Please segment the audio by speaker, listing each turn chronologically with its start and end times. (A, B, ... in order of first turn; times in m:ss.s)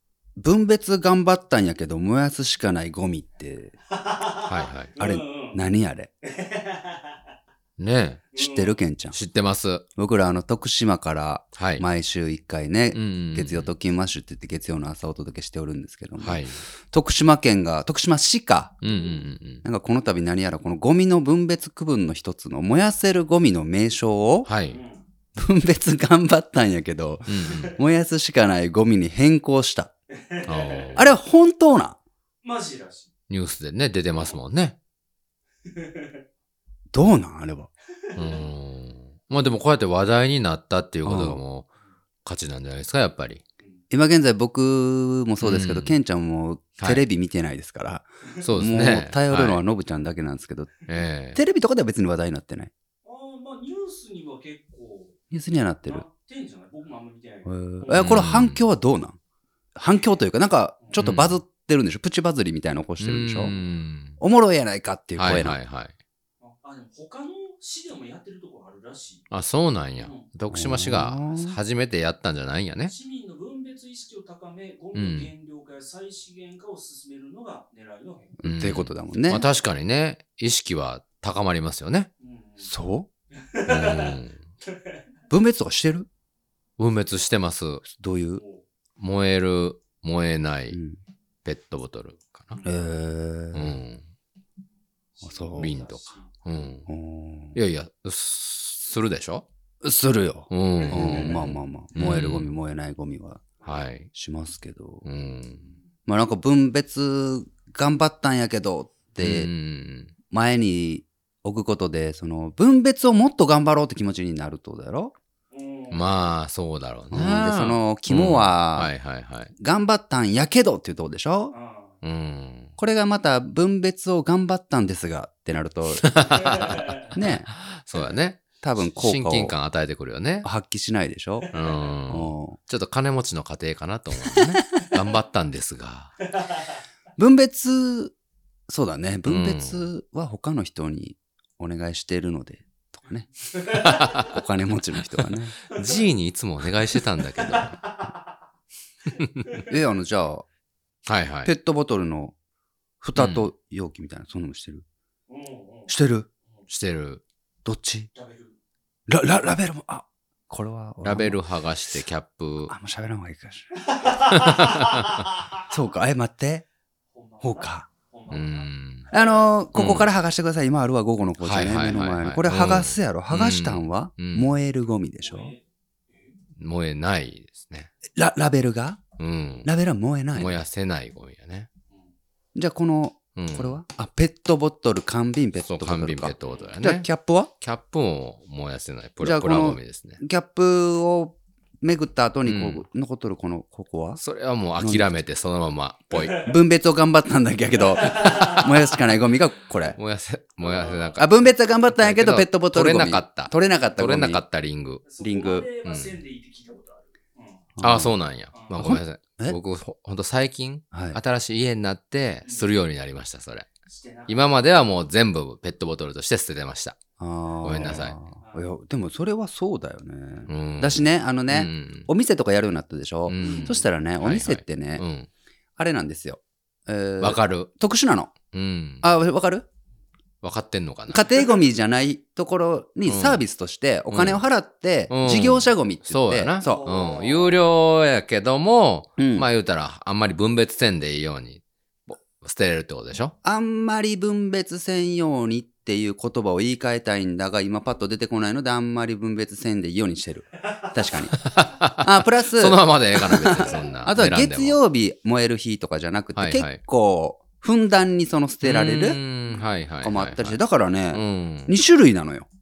0:00.4-0:03.8 A
0:03.9-0:05.6 B
0:04.4-0:04.9 C
0:05.0-0:06.1 A
0:06.2-0:07.2 B
0:07.8-0:08.2 C
0:08.3-0:08.8 B
0:08.4-0:09.2 A
0:09.1-0:09.8 C
0:10.0-0:18.7 A
0:11.6-0:11.8 C
0:12.9-0:13.7 C
0:16.2-0:16.6 C
0:18.8-0:19.6 C
0:18.8-0:19.2 B
0:19.6-0:24.5 A
0:24.4-0:24.8 C
0:24.7-0:25.0 B
0:25.4-0:29.9 A
0:27.3-0:27.8 C
0:30.1-0:31.0 B
0:30.4-0:31.0 C
0:31.0-0:32.0 A
0:32.4-0:33.1 B
0:33.3-0:34.8 C
0:35.6-0:36.2 B
0:36.9-0:37.7 A
0:38.1-0:38.5 B
0:38.2-0:41.7 C
0:41.0-0:41.4 A
0:42.2-0:43.4 C
0:43.9-0:50.7 A
0:45.4-0:46.0 C
0:46.8-0:47.0 C
0:48.4-0:49.6 C
0:50.9-0:51.4 C
0:51.3-0:52.7 A
0:53.0-0:55.2 B
0:55.3-0:56.0 A
0:55.9-0:58.2 B
0:57.4-0:59.2 A
0:57.9-0:58.6 C
0:59.8-1:03.5 A
1:01.0-1:01.4 C
1:03.0-1:04.2 C
1:04.2-1:05.6 A
1:05.2-1:05.9 C
1:06.4-1:09.2 B
1:09.3-1:12.9 C
1:10.0-1:10.2 B
1:10.5-1:11.6 A
1:12.9-1:18.3 B
1:14.9-1:15.3 C
1:18.4-1:19.4 A
1:18.4-1:22.1 C
1:22.2-1:22.7 B
1:22.6-1:23.1 A
1:23.3-1:25.0 B
1:23.6-1:24.4 C
1:25.3-1:26.1 A
1:26.8-1:27.8 C
1:27.8-1:28.4 A
1:29.0-1:30.8 C
1:30.7-1:31.0 A
1:31.4-1:32.6 C
1:32.6-1:33.8 A
1:33.5-1:34.0 C
1:35.2-1:36.3 B
1:35.2-1:35.9 A
1:35.6-1:36.9 C
1:36.9-1:37.6 A
1:37.6-1:39.4 C
1:39.8-1:43.4 A
1:40.5-1:42.5 C
1:40.9-1:41.3 B
1:43.6-1:44.1 C
1:44.1-1:45.0 A
1:45.0-1:45.7 C
1:46.1-1:49.5 A
1:49.2-1:50.1 C
1:50.3-1:55.1 A
1:55.5-1:56.0 B
1:55.9-1:59.5 C
1:57.1-1:58.9 A
1:59.6-2:01.5 A
2:01.5-2:01.9 B
2:02.0-2:02.7 C
2:02.8-2:06.1 A
2:06.0-2:10.5 C
2:06.3-2:07.1 B
2:07.1-2:07.5 A
2:08.6-2:09.5 A
2:10.4-2:11.5 A
2:11.4-2:11.9 B
2:11.5-2:16.2 C
2:12.1-2:12.6 A
2:17.2-2:18.1 A
2:18.7-2:23.3 A
2:19.2-2:19.9 C
2:23.5-2:23.9 B
2:23.7-2:24.4 C
2:24.1-2:25.6 A
2:25.7-2:27.8 C
2:25.7-2:26.0 B
2:27.3-2:28.2 B
2:29.1-2:29.5 C
2:29.7-2:30.4 A
2:31.1-2:31.5 C
2:31.4-2:32.3 A
2:33.0-2:34.8 A
2:33.2-2:33.5 C
2:35.3-2:35.9 B
2:35.9-2:36.3 A
2:36.7-2:37.2 C
2:37.6-2:38.1 A
2:38.1-2:38.5 B
2:39.1-2:41.4 A
2:41.0-2:42.7 C
2:42.7-2:44.4 A
2:43.8-2:45.6 B
2:44.3-2:45.3 C
2:45.7-2:46.6 A
2:47.1-2:49.3 B
2:47.4-2:47.8 A
2:48.3-2:49.1 C
2:49.1-2:55.5 A
2:49.8-2:50.1 C
2:51.4-2:54.5 C
2:55.2-2:56.3 B
2:56.6-2:57.9 C
2:58.1-2:59.0 A
2:59.2-2:59.7 C
2:59.6-3:00.6 A
3:00.3-3:01.7 C
3:02.5-3:07.5 A
3:03.4-3:03.8 C
3:05.6-3:07.1 C
3:07.6-3:10.2 C
3:09.2-3:14.2 A
3:12.4-3:12.8 C
3:14.2-3:16.5 C
3:14.8-3:15.1 A
3:16.1-3:16.6 B
3:16.4-3:20.0 A
3:18.0-3:18.6 B
3:20.0-3:25.0 C
3:20.6-3:21.2 B
3:21.2-3:24.4 A
3:25.1-3:27.7 B
3:25.2-3:25.7 A
3:25.8-3:26.2 C
3:27.8-3:28.1 A
3:27.8-3:33.7 C
3:28.5-3:28.8 B
3:28.8-3:29.6 A
3:30.9-3:31.2 A
3:32.4-3:32.7 B
3:33.8-3:34.5 B
3:34.3-3:37.0 C
3:37.2-3:45.0 A
3:37.6-3:38.2 C
3:38.4-3:38.7 B
3:40.5-3:42.1 C
3:43.3-3:45.3 C
3:43.4-3:43.8 B
3:45.8-3:48.3 A
3:47.2-3:47.7 C
3:48.5-3:49.1 C
3:49.0-3:49.7 A
3:50.4-3:51.3 C
3:51.1-3:56.9 A
3:53.1-3:53.4 C
3:54.1-3:54.4 C
3:55.1-4:03.3 C
3:56.6-3:57.6 B
3:59.2-3:59.5 A
4:03.4-4:19.2 A
4:11.4-4:14.8 C
4:16.3-4:16.8 C
4:18.6-4:20.6 C
4:20.0-4:22.5 A
4:21.1-4:21.7 C